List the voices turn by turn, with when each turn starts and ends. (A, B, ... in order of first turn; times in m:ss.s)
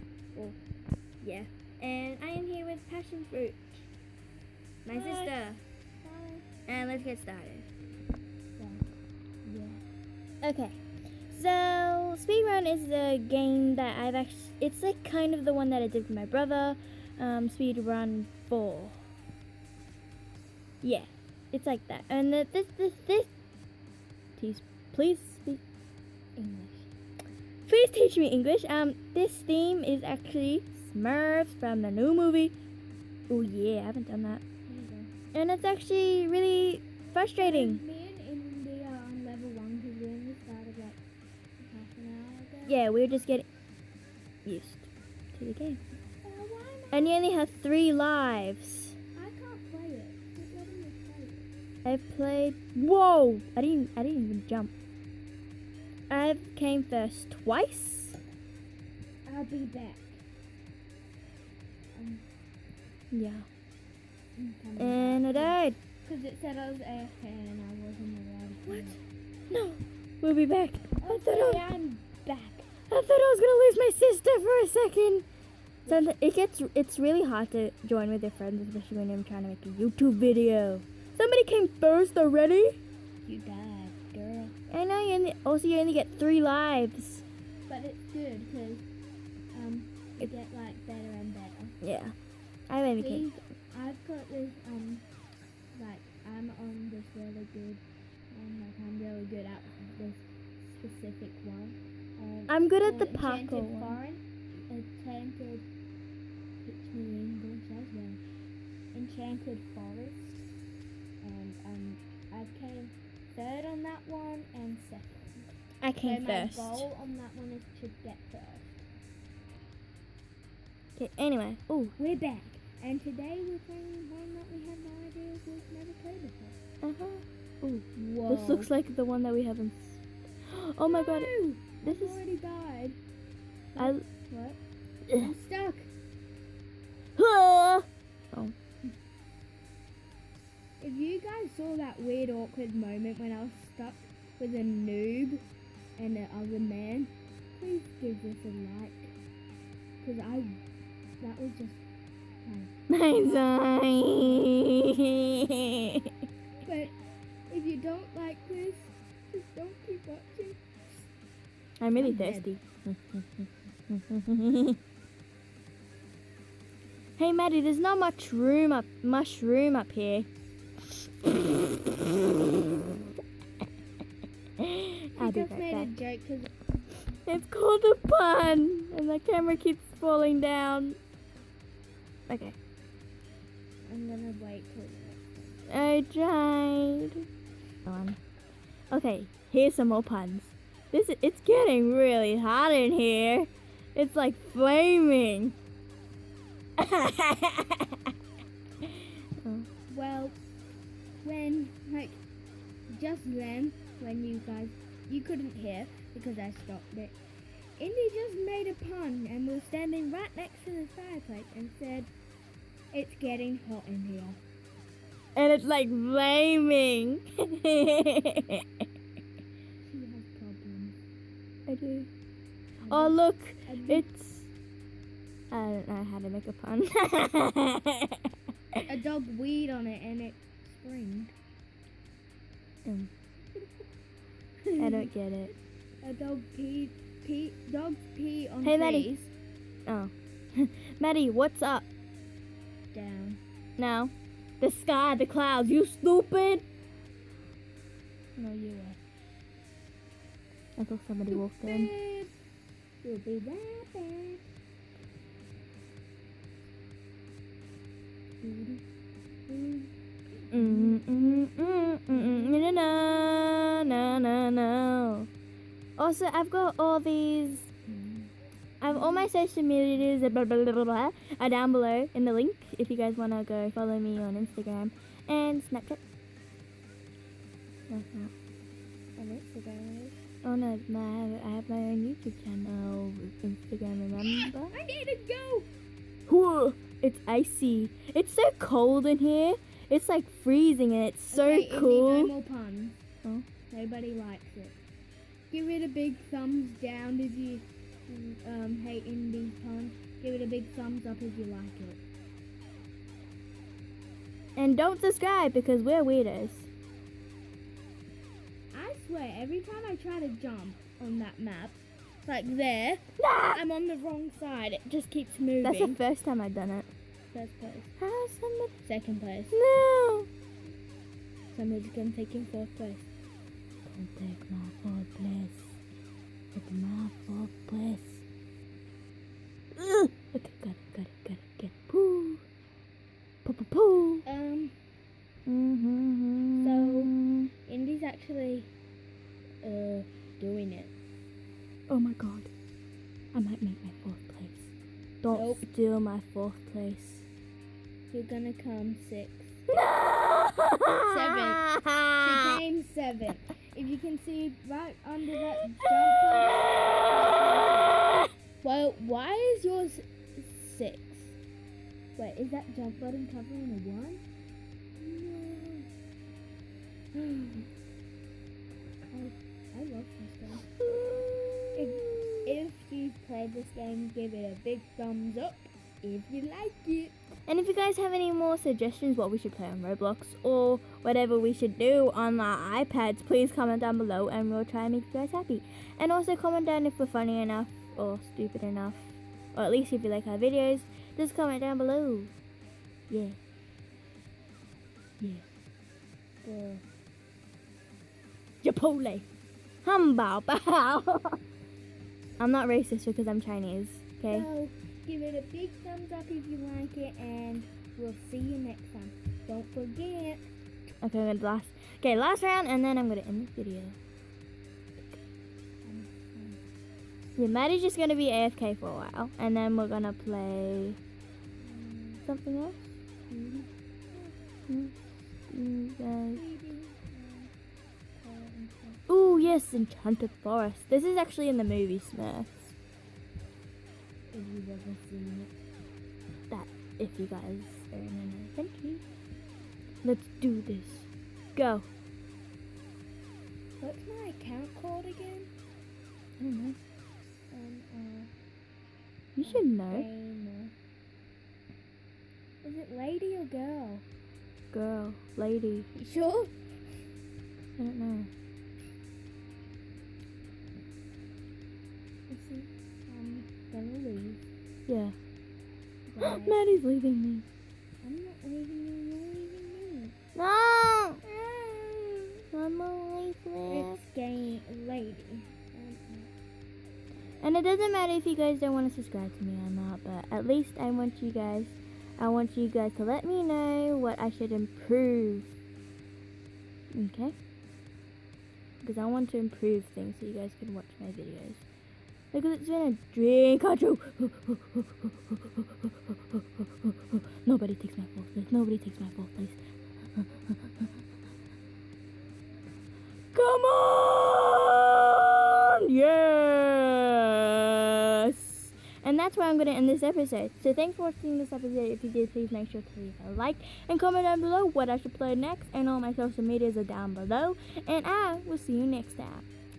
0:01.2-0:03.9 A
0:04.8-0:05.5 B
0:04.9-0:05.6 A
0:06.0-0:06.5 B
0:06.7-0:07.7 A
0:08.6-0:08.9 B
0:09.4-0:09.8 B
0:10.4-0:19.0 A
0:20.8-0:23.3 A
0:24.4-0:25.6 A
0:26.4-0:26.9 B
0:27.7-0:32.5 A
0:33.3-0:34.4 A
0:34.7-0:35.1 B
0:35.3-0:37.8 A
0:37.4-0:41.0 B
0:41.6-0:42.8 B
0:42.7-0:43.5 A
0:44.4-0:45.8 A
0:46.2-0:47.3 B
0:46.9-0:49.0 A
0:49.2-0:51.5 B
0:51.8-0:54.8 A
0:56.1-0:58.2 A
0:59.3-1:00.2 B
1:01.9-1:02.2 B
1:03.1-1:03.5 A
1:04.4-1:09.0 B
1:04.8-1:05.8 A
1:08.7-1:09.0 A
1:09.5-1:11.8 A
1:11.0-1:12.7 B
1:12.9-1:15.2 A
1:15.9-1:22.8 A
1:23.2-1:24.6 B
1:24.7-1:27.2 A
1:27.7-1:28.8 B
1:29.5-1:31.8 B
1:31.8-1:32.1 A
1:32.7-1:33.3 A
1:33.0-1:35.0 B
1:35.8-1:45.7 B
1:42.5-1:44.0 A
1:46.6-1:48.2 B
1:48.9-1:50.4 B
1:51.2-1:55.5 B
1:55.8-1:56.9 A
1:56.0-1:58.9 B
2:01.0-2:02.0 A
2:02.0-2:06.6 B
2:06.8-2:11.3 A
2:08.0-2:08.7 B
2:10.9-2:13.0 B
2:11.8-2:12.2 A
2:13.8-2:14.6 B
2:13.8-2:14.0 A
2:15.1-2:15.3 A
2:15.2-2:15.9 B
2:17.2-2:18.6 A
2:20.8-2:25.4 B
2:26.0-2:29.1 B
2:30.0-2:30.6 B
2:31.2-2:31.8 B
2:32.4-2:32.7 B
2:32.9-2:36.1 A
2:34.1-2:34.6 B
2:36.6-2:36.9 B
2:37.5-2:41.1 B
2:41.8-2:44.8 A
2:42.0-2:42.5 B
2:47.2-2:50.3 A
2:51.2-2:52.6 A
2:54.6-2:55.9 A
2:55.2-2:56.5 B
2:57.3-3:01.0 A
3:02.3-3:02.6 A
3:03.9-3:05.8 B
3:05.7-3:07.2 A
3:07.8-3:08.2 A
3:08.9-3:15.6 A
3:16.8-3:18.0 A
3:19.4-3:19.7 A
3:19.9-3:20.4 B
3:21.2-3:22.2 B
3:22.9-3:27.2 B
3:27.8-3:32.1 B
3:32.9-3:34.4 B
3:35.4-3:38.6 A
3:39.8-3:41.0 B
3:41.7-3:42.1 A
3:42.8-3:44.1 B
3:42.9-3:44.5 A
3:45.5-3:48.2 A
3:48.9-3:51.3 B
3:52.8-3:53.1 A
3:54.6-3:55.1 B
3:54.8-3:55.5 A
3:56.0-3:59.3 B
3:58.6-3:59.2 A
3:59.9-4:01.9 A
4:02.9-4:03.4 B
4:03.8-4:06.6 A
4:08.4-4:09.0 B
4:10.8-4:11.9 A
4:11.3-4:12.3 B
4:13.0-4:14.4 B
4:18.4-4:18.8 B
4:19.5-4:19.9 B
4:20.4-4:24.3 B
4:20.5-4:25.3 A
4:26.0-4:27.7 A
4:27.9-4:28.3 B
4:28.8-4:36.0 A
4:28.9-4:29.3 B
4:37.9-4:38.3 A
4:39.2-4:40.2 B
4:40.4-4:44.8 A
4:44.2-4:45.7 B
4:46.3-4:52.3 A
4:51.3-4:53.0 B
4:53.7-4:54.8 B
4:55.5-5:02.0 B
5:04.6-5:06.7 A
5:08.7-5:16.0 B
5:13.2-5:13.6 A
5:15.6-5:16.9 A
5:17.3-5:17.9 B
5:18.0-5:18.8 A
5:18.8-5:19.6 B
5:19.5-5:20.3 A
5:21.5-5:23.1 B
5:23.8-5:25.8 A
5:26.5-5:28.2 A
5:29.8-5:32.4 A
5:33.4-5:34.2 A
5:34.2-5:34.8 B
5:35.5-5:37.5 A
5:36.6-5:37.1 B
5:37.7-5:38.7 B
5:39.6-5:40.9 B
5:41.9-5:42.5 A
5:43.3-5:47.3 A
5:45.3-5:45.7 B
5:48.1-5:49.6 B
5:49.8-5:52.3 A
5:51.0-5:58.1 B
5:58.6-6:01.4 B
6:02.2-6:04.2 B
6:05.0-6:05.9 B
6:07.1-6:07.7 B
6:09.1-6:10.8 B
6:10.8-6:12.6 A
6:11.8-6:17.2 B
6:17.5-6:32.3 A
6:33.1-6:33.4 A
6:35.2-6:35.4 A
6:36.4-6:36.8 B
6:38.6-6:39.3 A
6:39.8-6:41.4 A
6:42.4-6:44.5 A
6:44.3-6:50.5 B
6:51.0-6:54.0 A
6:55.8-6:56.6 B
6:57.3-7:01.0 A
7:01.6-7:02.2 B
7:02.3-7:02.9 A
7:03.3-7:04.3 B
7:04.7-7:06.4 A
7:06.4-7:07.5 B
7:08.2-7:09.6 B
7:09.1-7:12.8 A
7:14.3-7:15.6 B
7:16.5-7:19.0 A
7:20.0-7:21.9 A
7:23.8-7:25.5 B
7:26.4-7:26.8 A
7:27.5-7:28.3 B
7:29.4-7:30.1 A
7:29.4-7:30.7 B
7:32.6-7:34.0 B
7:34.7-7:35.9 A
7:36.0-7:36.6 B
7:37.7-7:38.3 A
7:42.3-7:44.4 B
7:44.9-7:45.2 A
7:46.1-7:46.6 B
7:46.2-7:47.5 A
7:48.0-7:50.2 B
7:50.4-7:51.2 A
7:51.3-7:52.4 B
7:52.5-7:54.0 A
7:53.7-7:56.3 B
7:57.4-8:05.5 A
8:06.9-8:07.4 A
8:08.8-8:11.6 A
8:12.3-8:19.6 A
8:20.1-8:20.9 A
8:23.3-8:39.5 A